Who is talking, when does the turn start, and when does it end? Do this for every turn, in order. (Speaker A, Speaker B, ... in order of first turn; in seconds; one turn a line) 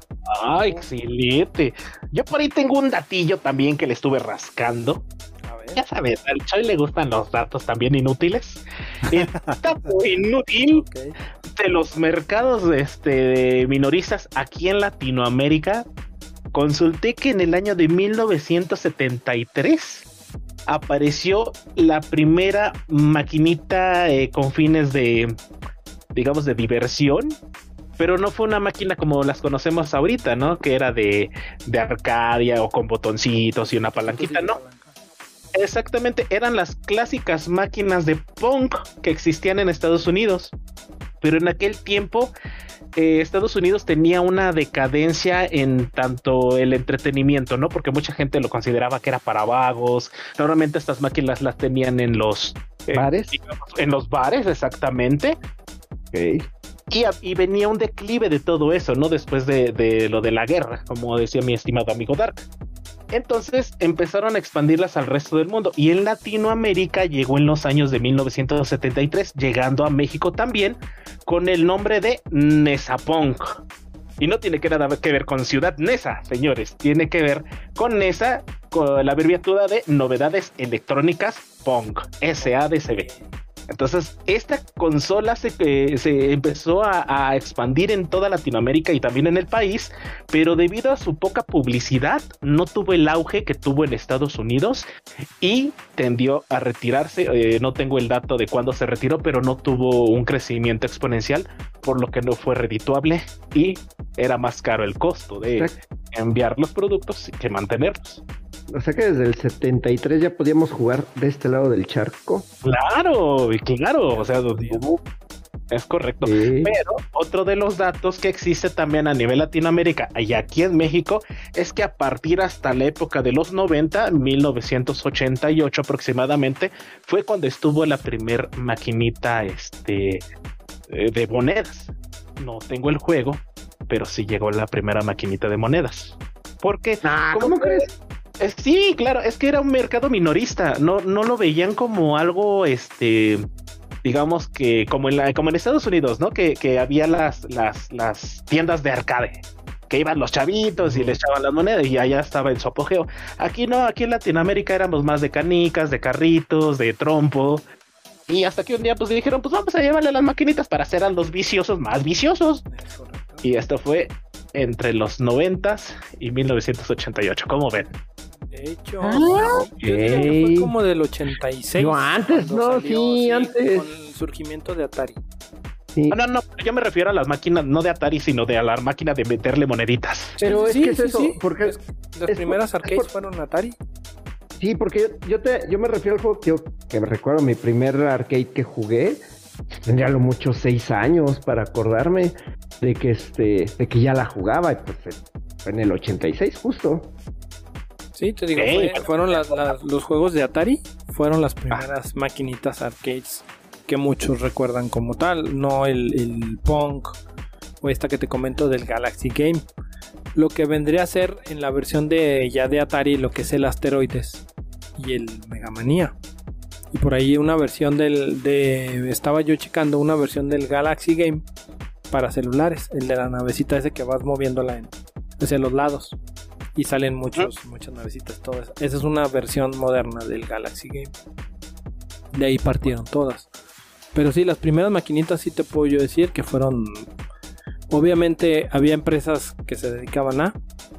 Speaker A: 0.3-5.0
Speaker B: 5.4-5.8
Speaker A: 5.8-10.8
Speaker B: 9.0-9.9
Speaker B: 10.7-11.1
Speaker A: 11.5-15.8
Speaker A: 16.5-20.1
Speaker A: 20.7-25.4
Speaker A: 26.1-27.4
Speaker A: 28.0-34.6
Speaker B: 33.7-34.9
Speaker A: 35.5-40.5
Speaker A: 41.2-42.3
Speaker A: 42.9-55.4
Speaker C: 52.9-53.4
Speaker C: 56.1-56.5
Speaker A: 56.9-62.5
Speaker A: 63.1-73.6
Speaker A: 74.2-83.1
Speaker B: 82.4-83.3
Speaker A: 83.7-94.9
Speaker A: 95.4-108.2
Speaker C: 105.4-105.7
Speaker C: 108.7-112.4
Speaker A: 112.6-115.0
Speaker B: 114.1-114.8
Speaker A: 115.7-130.2
Speaker C: 116.2-116.7
Speaker A: 130.9-143.4
Speaker C: 137.0-137.9
Speaker A: 144.0-157.6
Speaker A: 158.3-162.6
Speaker B: 162.7-163.5
Speaker A: 163.4-167.9
Speaker B: 168.5-175.2
Speaker A: 169.0-169.7
Speaker C: 169.1-170.7
Speaker C: 171.8-173.9
Speaker A: 176.1-180.4
Speaker B: 180.4-183.8
Speaker C: 180.4-183.1
Speaker C: 184.6-189.2
Speaker C: 189.8-197.1
Speaker B: 198.2-207.2
Speaker A: 198.5-199.7
Speaker B: 207.8-209.6
Speaker B: 210.3-214.4
Speaker B: 215.0-216.2
Speaker B: 216.9-221.4
Speaker B: 222.1-226.2
Speaker B: 226.7-231.1
Speaker B: 232.3-233.5
Speaker B: 234.1-237.1
Speaker B: 237.9-240.6